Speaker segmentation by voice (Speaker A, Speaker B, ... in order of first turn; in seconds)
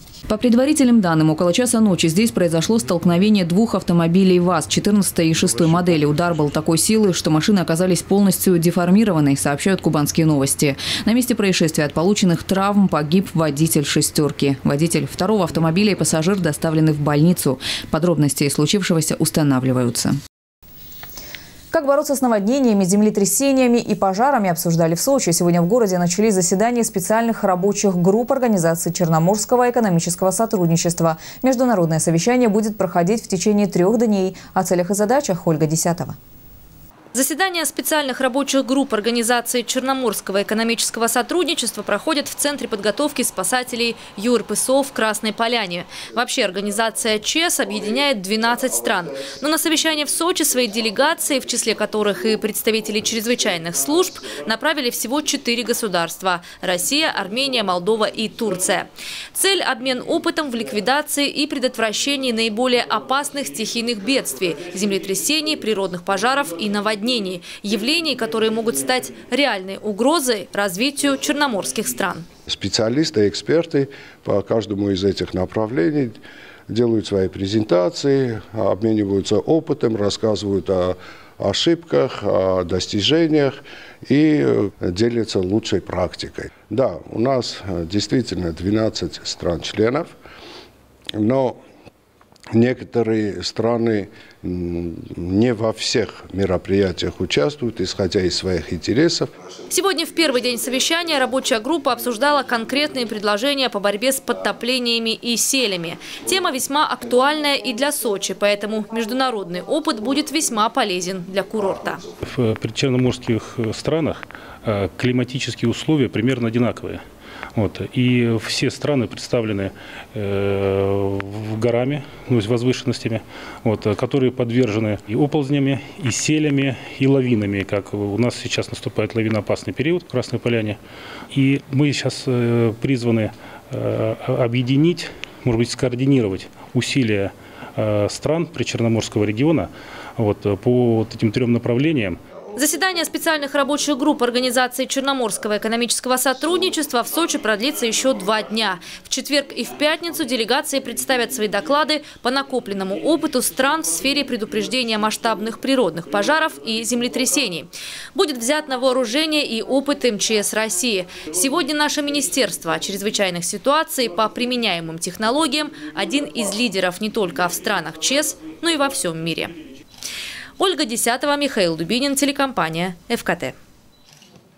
Speaker A: 0.3-20.2
Speaker B: 21.7-36.1
Speaker C: 37.1-72.2, 99.7-112.0, 142.6-169.6, 170.6-173.5
Speaker D: 72.5-90.1, 91.1-91.6, 92.5-99.3
Speaker E: 112.2-117.0, 117.5-130.8, 131.3-142.2